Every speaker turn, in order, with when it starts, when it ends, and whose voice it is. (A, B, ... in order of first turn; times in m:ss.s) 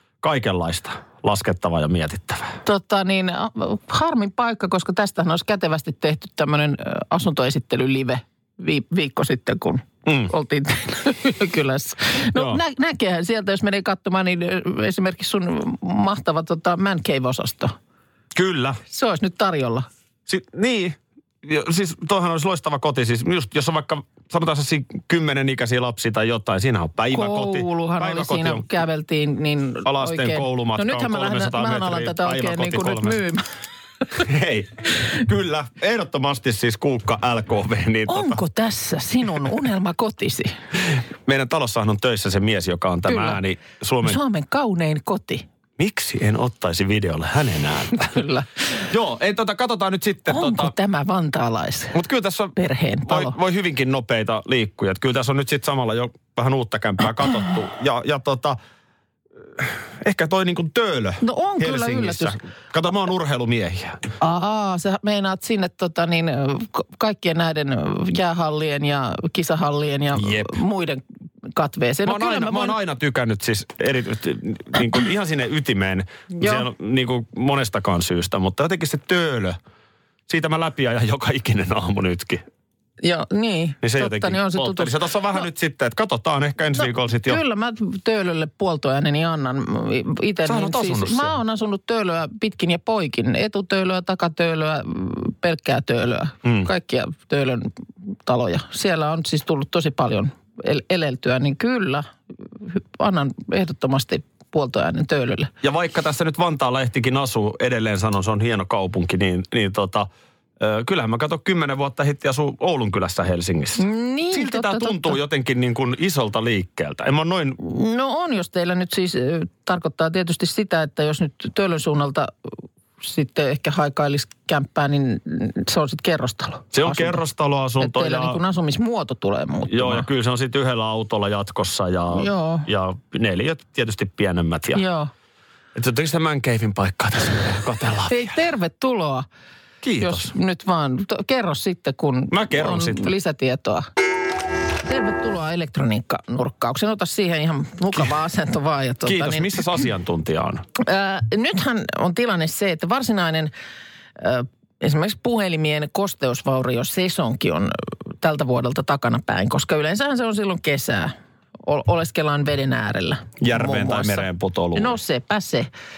0:00.2-0:02.6 A
0:02.6-0:17.7 B
0:10.0-0:10.3 A
0:12.3-0:12.6 A
0:18.3-0:18.8 A
0:18.9-0:19.9 B
0:20.3-0:28.7 A
0:27.1-0:33.4 B
0:29.8-0:33.2 A
0:34.1-0:38.4 A
0:38.1-0:40.5 B
0:41.2-0:44.2 A
0:43.1-0:43.4 B
0:44.0-0:45.4 B
0:45.8-0:48.2 A
0:48.0-0:48.8 B
0:48.9-0:50.7 A
0:50.3-0:52.0 B
0:51.9-0:52.5 A
0:52.6-0:53.4 B
0:53.0-0:58.6 A
0:59.6-1:04.0 A
1:01.2-1:02.4 B
1:04.2-1:11.0 B
1:10.2-1:10.5 A
1:11.5-1:12.8 B
1:12.0-1:19.6 A
1:16.3-1:16.7 B
1:20.3-1:22.4 A
1:23.0-1:25.4 B
1:23.8-1:27.4 A
1:26.8-1:37.7 B
1:30.4-1:31.4 A
1:36.4-1:36.7 A
1:38.2-1:42.1 B
1:42.6-1:45.5 B
1:45.6-1:57.6 A
1:53.8-1:55.2 B
1:57.6-2:02.3 B
2:03.0-2:07.2 B
2:06.7-2:08.4 A
2:07.8-2:10.1 B
2:09.7-2:14.8 A
2:12.1-2:12.7 B
2:14.7-2:15.1 B
2:15.7-2:18.4 A
2:18.1-2:19.2 B
2:19.8-2:20.3 A
2:20.0-2:23.9 B
2:22.3-2:23.1 A
2:24.8-2:29.8 B
2:29.0-2:30.6 A
2:30.8-2:33.5 B
2:34.2-2:45.7 B
2:43.4-2:45.0 A